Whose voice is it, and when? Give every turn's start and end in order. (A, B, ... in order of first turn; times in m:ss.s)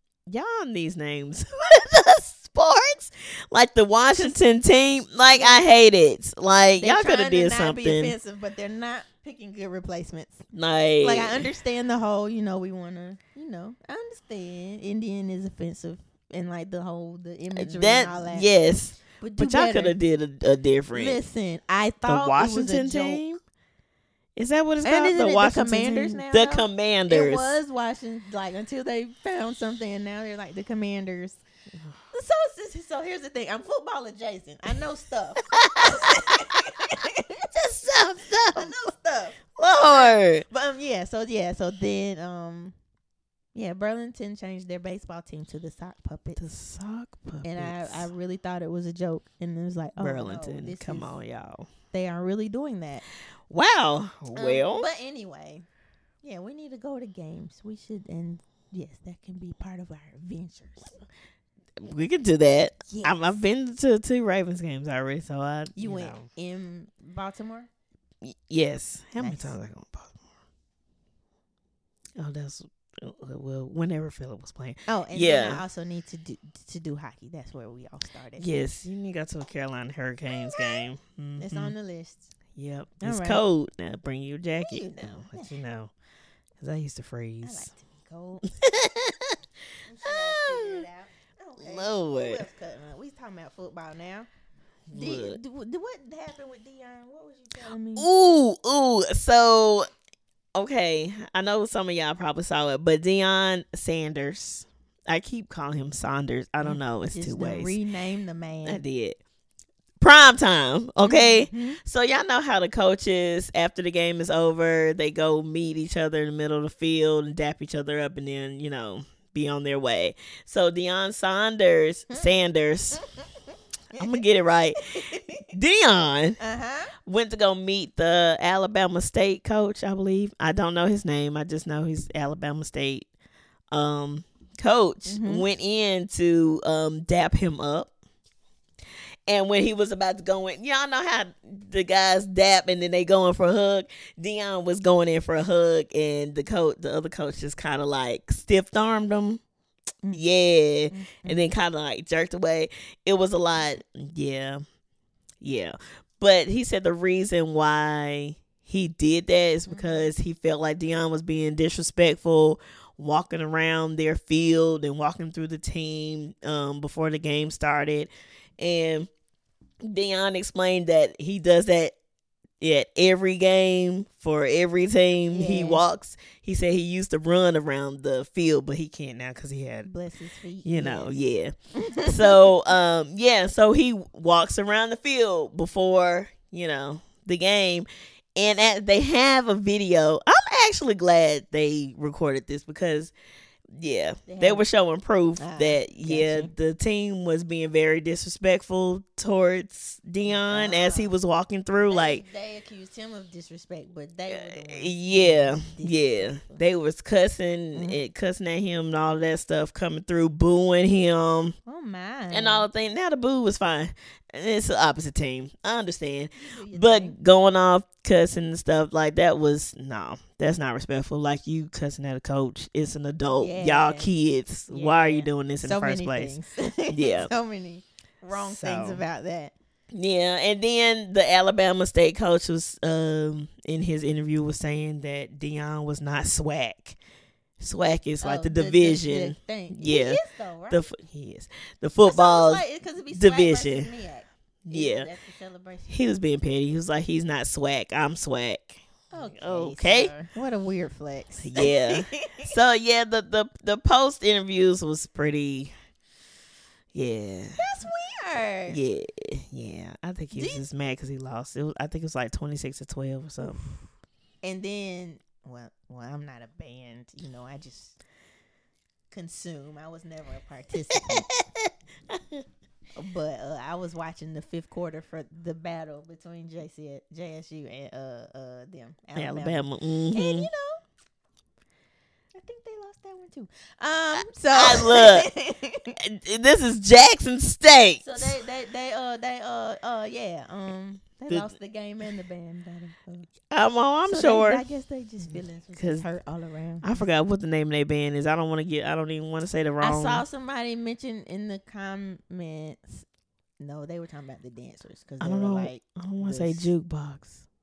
0:00.3-0:08.1 A
0:05.3-0:05.7 B
0:06.8-0:10.4 B
0:10.5-0:11.5 A
0:11.0-0:18.5 B
0:17.5-0:21.2 A
0:19.2-0:20.0 B
0:20.9-0:23.2 B
0:22.0-0:23.4 A
0:24.4-0:27.6 A
0:24.8-0:31.4 B
0:32.1-0:37.5 B
0:35.5-0:36.6 A
0:37.5-0:38.7 A
0:38.5-0:42.7 B
0:39.6-0:40.4 A
0:43.5-0:46.4 B
0:46.4-0:48.1 A
0:47.4-0:51.2 B
0:50.0-0:51.7 A
0:51.9-0:53.0 B
0:53.5-0:54.8 A
0:54.3-0:55.6 B
0:56.2-1:01.0 B
1:01.8-1:06.3 A
1:02.9-1:03.4 B
1:05.8-1:07.7 B
1:08.2-1:10.2 A
1:09.2-1:09.5 B
1:12.2-1:15.6 A
1:14.9-1:18.4 B
1:18.4-1:21.7 A
1:20.3-1:22.3 B
1:22.5-1:25.9 A
1:23.0-1:23.4 B
1:24.6-1:25.6 B
1:26.6-1:27.7 A
1:27.4-1:28.4 B
1:28.5-1:29.4 A
1:29.8-1:34.3 B
1:30.0-1:30.8 A
1:31.6-1:32.4 A
1:34.9-1:35.4 A
1:34.9-1:38.1 B
1:38.0-1:39.9 A
1:40.6-1:47.8 A
1:46.6-1:48.8 B
1:48.6-1:49.2 A
1:50.0-2:03.0 A
1:51.0-1:51.8 B
2:02.9-2:03.2 B
2:03.9-2:04.2 B
2:04.0-2:06.4 A
2:04.9-2:05.5 B
2:06.4-2:06.9 B
2:07.0-2:13.1 A
2:13.7-2:17.9 A
2:15.0-2:15.4 B
2:19.3-2:29.4 A
2:30.1-2:34.6 A
2:30.9-2:31.4 B
2:35.4-2:49.1 A
2:39.7-2:40.1 B
2:49.8-2:52.0 A
2:52.6-2:59.9 A
2:55.3-2:55.8 B
2:59.8-3:01.2 B
3:00.6-3:13.1 A
3:01.7-3:02.5 B
3:13.7-3:22.2 A
3:14.3-3:14.6 B
3:15.4-3:16.5 B
3:20.2-3:21.1 B
3:21.9-3:26.6 B
3:24.3-3:31.6 A
3:27.7-3:28.0 B
3:31.6-3:32.7 B
3:32.3-3:46.4 A
3:36.4-3:37.2 B
3:43.4-3:44.1 B
3:44.7-3:49.5 B
3:46.9-3:47.3 A
3:48.3-3:49.0 A
3:49.9-3:57.0 A
3:57.6-4:03.9 A
3:58.2-4:00.9 B
4:02.0-4:05.9 B
4:04.6-4:05.1 A
4:05.9-4:10.1 A
4:09.1-4:12.5 B
4:11.4-4:15.7 A
4:16.9-4:17.6 A
4:17.6-4:18.8 B
4:18.7-4:23.7 A
4:20.3-4:20.6 B
4:23.4-4:23.7 B
4:24.4-4:28.0 B
4:29.1-4:31.3 B
4:30.9-4:32.4 A
4:33.0-4:40.8 B
4:39.2-4:40.5 A
4:42.3-4:46.0 B
4:44.5-4:45.3 A
4:46.0-4:48.3 A
4:48.0-4:53.3 B
4:53.5-4:54.6 A
4:54.0-4:57.0 B
4:55.3-4:56.1 A
4:56.8-5:00.2 A
4:59.8-5:03.0 B
5:03.6-5:06.7 B
5:05.2-5:07.4 A